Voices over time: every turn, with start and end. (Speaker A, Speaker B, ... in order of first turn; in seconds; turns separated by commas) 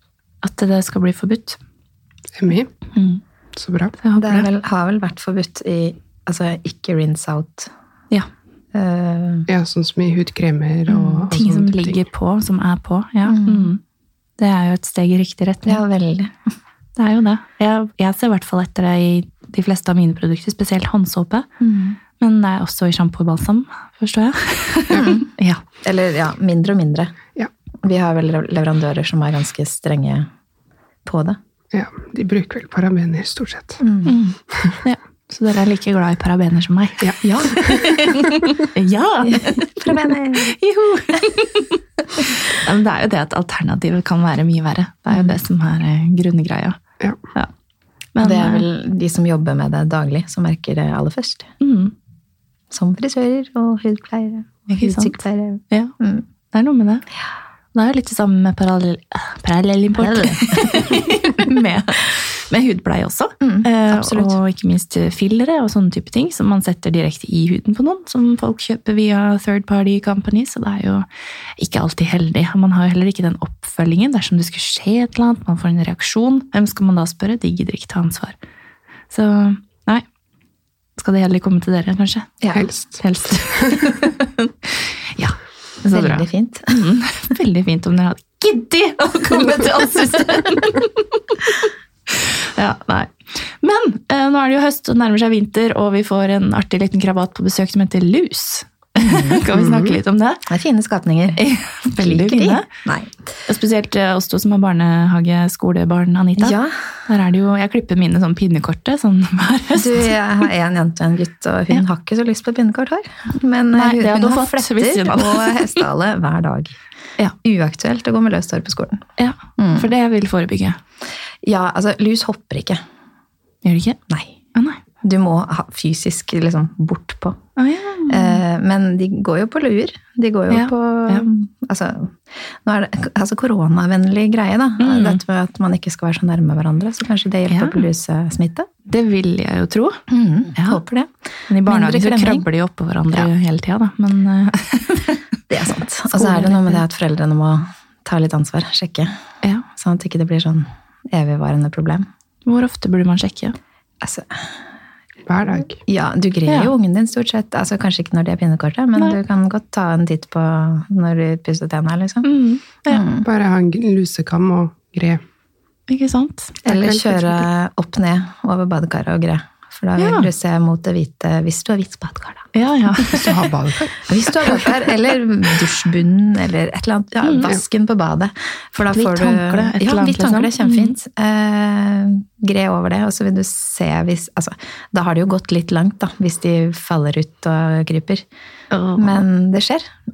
Speaker A: 0.4-1.6, Speaker B: 2.4-2.7, Speaker A: 2.9-3.2, Speaker B: 3.6-4.0, Speaker A: 4.0-4.5, Speaker C: 4.2-7.7, Speaker C: 8.7-9.5, Speaker B: 9.5-12.0, Speaker C: 10.9-11.2, Speaker A: 11.3-13.8, Speaker C: 13.3-13.7, Speaker A: 14.4-15.8, Speaker C: 15.7-16.4, Speaker A: 17.0-21.5, Speaker C: 21.6-22.0, Speaker A: 22.2-25.6, Speaker C: 25.0-25.3, Speaker C: 25.8-27.2, Speaker C: 27.8-30.3, Speaker C: 31.1-31.4, Speaker B: 31.7-33.8, Speaker C: 33.8-34.2, Speaker A: 34.0-46.8, Speaker B: 37.0-38.0, Speaker C: 37.2-37.7, Speaker C: 39.2-40.6, Speaker C: 45.1-45.4, Speaker A: 48.1-48.7, Speaker C: 48.2-51.5, Speaker A: 51.6-51.9, Speaker C: 52.7-56.3, Speaker A: 54.7-55.2, Speaker A: 56.5-57.0, Speaker A: 57.7-71.1, Speaker C: 60.0-61.0, Speaker C: 63.4-64.4, Speaker A: 71.6-78.4, Speaker A: 79.1-80.0, Speaker A: 81.0-82.4, Speaker C: 82.4-82.7, Speaker B: 82.5-83.0, Speaker A: 83.0-100.5, Speaker C: 85.8-86.8, Speaker C: 99.0-99.4, Speaker B: 99.5-100.0, Speaker C: 100.5-103.2, Speaker A: 101.4-102.7, Speaker A: 103.5-110.1, Speaker C: 106.4-106.8, Speaker C: 109.8-116.8, Speaker A: 113.7-115.8, Speaker C: 117.4-119.1, Speaker A: 119.2-120.8, Speaker C: 119.6-119.9, Speaker C: 121.4-122.8, Speaker A: 123.6-124.0, Speaker C: 124.1-124.3, Speaker A: 124.5-124.8, Speaker C: 125.0-127.4, Speaker A: 127.6-128.4, Speaker C: 128.1-138.7, Speaker A: 130.5-131.3, Speaker A: 134.8-135.2, Speaker A: 137.5-137.8, Speaker A: 138.9-140.0, Speaker C: 140.1-141.1, Speaker A: 140.6-140.8, Speaker A: 141.5-145.2, Speaker C: 141.6-142.5, Speaker C: 145.5-149.1, Speaker A: 146.1-146.8, Speaker C: 149.7-152.1, Speaker A: 152.5-153.6, Speaker C: 154.0-154.5, Speaker B: 155.3-155.8, Speaker C: 155.8-162.3, Speaker A: 162.2-163.0, Speaker C: 162.9-163.3, Speaker B: 163.2-165.2, Speaker A: 165.9-166.6, Speaker C: 166.7-172.5, Speaker B: 166.7-167.4, Speaker A: 170.0-170.3, Speaker A: 172.5-173.3, Speaker B: 173.1-174.7, Speaker C: 174.1-188.2, Speaker A: 177.2-177.5, Speaker A: 178.9-181.0, Speaker A: 188.7-189.2, Speaker C: 189.0-189.9